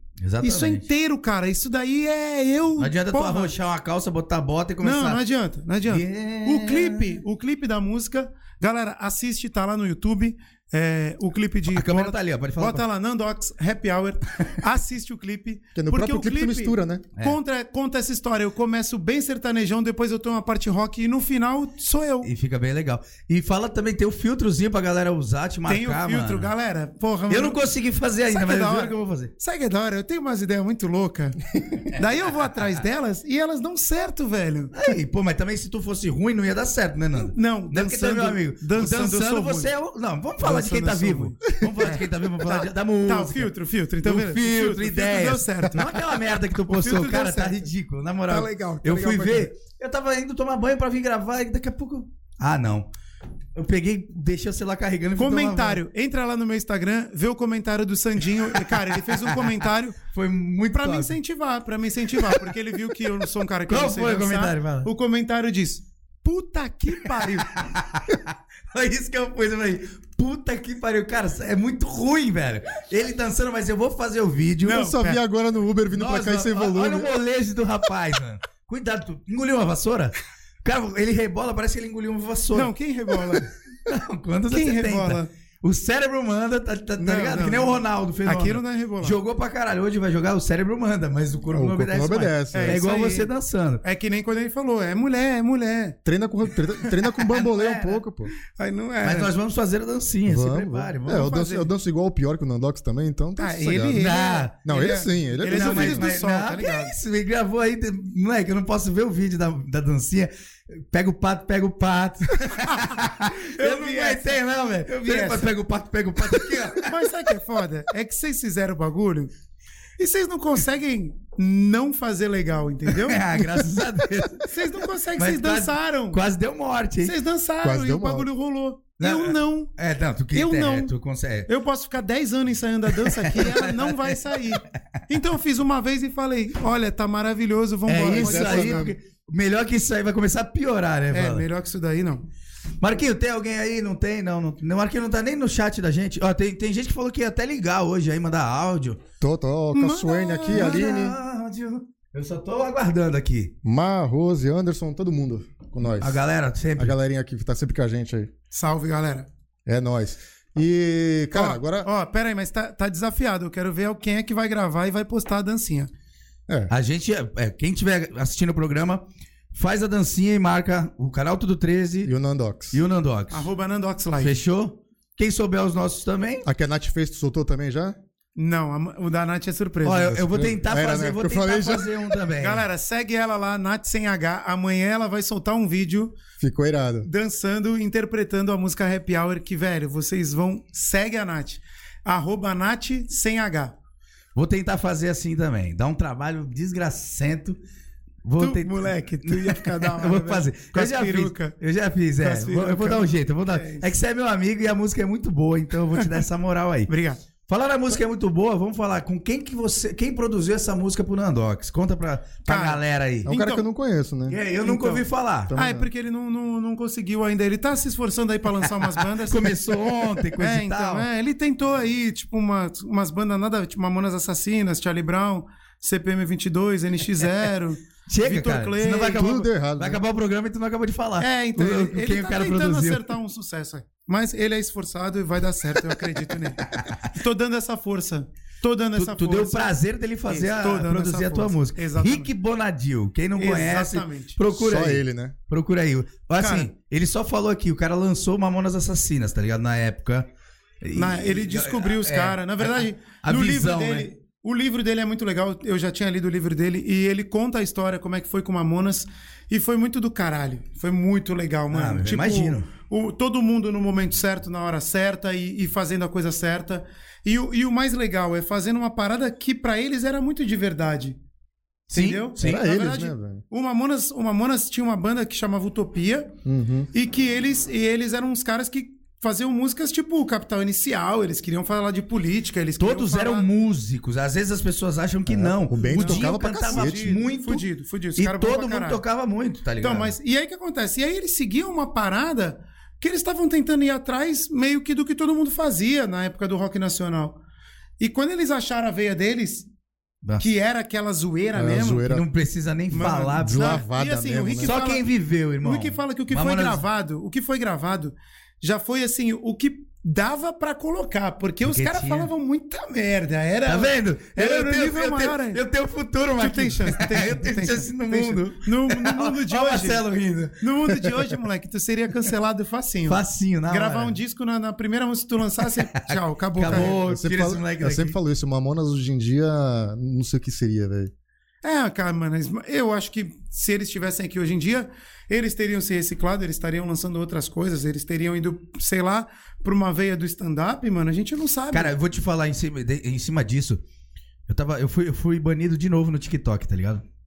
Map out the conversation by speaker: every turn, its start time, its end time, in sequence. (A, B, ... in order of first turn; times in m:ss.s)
0:00.2-0:00.8 A
0:00.4-0:03.5 B
0:02.8-0:05.2 A
0:04.8-0:22.3 B
0:05.9-0:07.2 A
0:11.7-0:12.8 A
0:15.8-0:17.0 C
0:22.2-0:26.5 A
0:25.7-0:27.6 B
0:27.3-0:29.3 A
0:28.3-0:34.7 B
0:32.3-0:32.8 A
0:34.7-0:43.5 A
0:37.2-0:39.7 B
0:40.4-0:46.1 B
0:44.0-0:52.9 A
0:46.7-0:47.7 B
0:48.3-0:49.5 B
0:53.6-0:55.8 A
0:55.2-1:00.0 B
0:58.6-0:59.5 A
1:00.1-1:01.2 A
1:00.7-1:07.6 B
1:03.7-1:04.9 A
1:07.5-1:14.9 A
1:14.6-1:15.2 B
1:14.7-1:17.1 C
1:15.9-1:22.7 A
1:22.5-1:23.5 B
1:23.3-1:33.8 A
1:24.5-1:25.3 B
1:27.0-1:29.2 B
1:31.5-1:32.8 C
1:32.5-1:33.3 B
1:33.8-1:36.0 B
1:36.0-1:38.3 C
1:36.8-1:37.1 B
1:37.3-1:38.0 A
1:38.5-1:39.3 B
1:39.0-1:41.3 A
1:40.3-1:46.1 C
1:41.1-1:41.7 B
1:43.4-1:46.9 B
1:44.0-1:44.6 A
1:45.4-1:57.0 A
1:52.6-1:54.4 B
1:54.9-1:55.5 B
1:56.8-1:59.3 B
2:00.0-2:03.6 B
2:02.9-2:04.6 A
2:04.4-2:06.2 B
2:05.2-2:07.1 A
2:07.0-2:09.7 B
2:07.6-2:08.3 C
2:09.0-2:11.5 A
2:10.3-2:10.9 B
2:11.5-2:18.9 B
2:13.0-2:14.8 A
2:17.9-2:21.4 A
2:18.1-2:19.0 C
2:21.1-2:22.3 B
2:22.8-2:29.0 A
2:29.2-2:31.2 C
2:29.7-2:30.9 B
2:30.5-2:33.5 A
2:33.6-2:36.2 C
2:36.0-2:37.0 A
2:36.8-2:38.3 C
2:38.5-2:39.3 B
2:39.6-2:41.9 C
2:41.3-2:45.9 B
2:46.7-2:52.1 A
2:52.0-2:52.8 C
2:52.7-2:53.5 A
2:53.3-2:54.4 B
2:54.2-2:56.5 A
2:56.4-2:58.0 C
2:58.4-3:00.2 B
2:59.8-3:02.6 A
3:00.1-3:02.1 C
3:02.4-3:06.2 B
3:06.4-3:07.1 C
3:07.0-3:13.7 B
3:14.4-3:17.6 A
3:18.2-3:26.9 A
3:18.4-3:21.6 B
3:22.2-3:23.9 B
3:26.9-3:27.2 B
3:27.5-3:33.3 A
3:32.5-3:33.6 B
3:33.2-3:34.4 C
3:34.3-3:35.5 A
3:34.6-3:49.4 B
3:35.5-3:35.9 C
3:39.2-3:41.1 A
3:48.1-3:53.1 A
3:49.0-3:50.0 C
3:51.2-3:59.8 B
3:56.6-3:57.1 A
3:59.0-4:10.3 A
4:00.3-4:02.3 B
4:03.4-4:04.4 B
4:04.5-4:05.4 C
4:06.4-4:06.7 B
4:10.8-4:14.1 A
4:11.0-4:31.2 B
4:21.7-4:22.7 A
4:31.9-4:36.3 B
4:31.9-4:32.7 A
4:32.4-4:33.4 C
4:36.4-4:36.9 C
4:36.9-4:43.5 B
4:42.8-4:47.6 A
4:45.3-4:47.0 C
4:45.8-4:49.0 B
4:48.2-4:50.1 A
4:49.8-4:57.4 B
4:58.0-4:59.7 B
5:00.4-5:02.1 B
5:01.5-5:02.2 C
5:02.1-5:03.9 A
5:02.9-5:05.1 B
5:03.4-5:04.8 C
5:04.6-5:06.8 A
5:05.6-5:15.6 B
5:11.6-5:12.3 A
5:13.6-5:20.6 A
5:16.4-5:20.0 B
5:20.6-5:27.0 B
5:23.1-5:24.2 A
5:25.9-5:28.2 A
5:26.6-5:31.1 C
5:31.6-5:41.9 B
5:41.7-5:43.8 A
5:44.5-5:47.0 A